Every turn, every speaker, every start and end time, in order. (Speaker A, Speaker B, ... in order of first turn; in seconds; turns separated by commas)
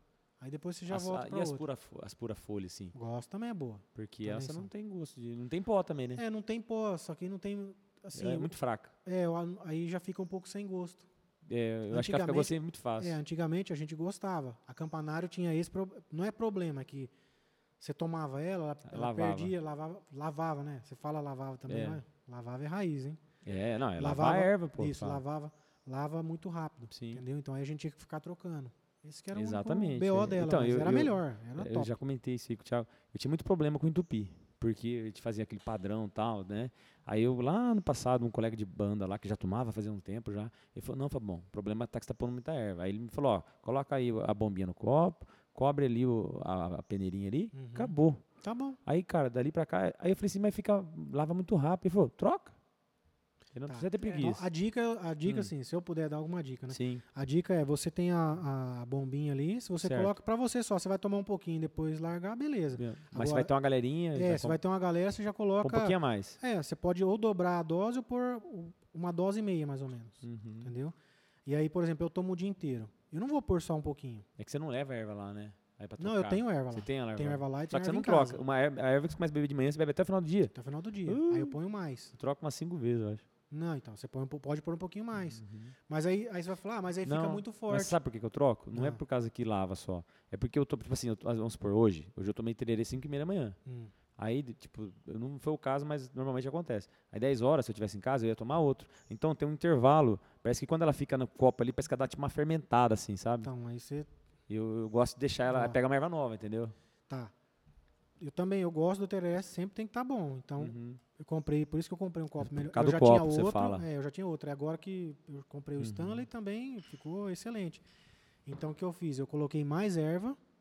Speaker A: 0.4-1.6, Speaker B: 0.9-2.9, Speaker A: 2.9-4.7, Speaker B: 4.0-6.2, Speaker A: 6.2-11.1, Speaker B: 8.1-8.9, Speaker B: 11.4-13.2, Speaker A: 11.9-17.1, Speaker A: 17.8-23.2, Speaker B: 18.8-19.5, Speaker B: 21.7-22.0, Speaker B: 23.4-25.2, Speaker A: 24.0-31.9, Speaker B: 26.9-27.2, Speaker B: 29.3-48.2, Speaker A: 47.5-48.8, Speaker B: 48.9-52.5, Speaker B: 53.5-54.5, Speaker A: 53.7-63.5, Speaker B: 55.2-55.5, Speaker B: 56.7-57.0, Speaker B: 59.8-60.1, Speaker B: 62.7-64.6, Speaker A: 64.1-70.9, Speaker B: 65.6-66.4, Speaker B: 70.2-70.7, Speaker A: 71.5-74.2, Speaker B: 74.4-80.5, Speaker A: 76.0-78.4, Speaker A: 80.5-82.1, Speaker B: 81.0-81.5, Speaker B: 82.1-83.2, Speaker A: 83.5-88.0, Speaker B: 85.2-85.7, Speaker B: 87.0-93.6, Speaker A: 88.7-89.0, Speaker A: 93.6-93.9, Speaker B: 94.2-103.5, Speaker A: 103.4-104.1, Speaker B: 104.5-106.7, Speaker A: 105.5-105.8, Speaker A: 108.2-117.8, Speaker B: 110.6-111.0, Speaker B: 112.4-113.8, Speaker B: 115.8-116.2, Speaker A: 118.4-120.4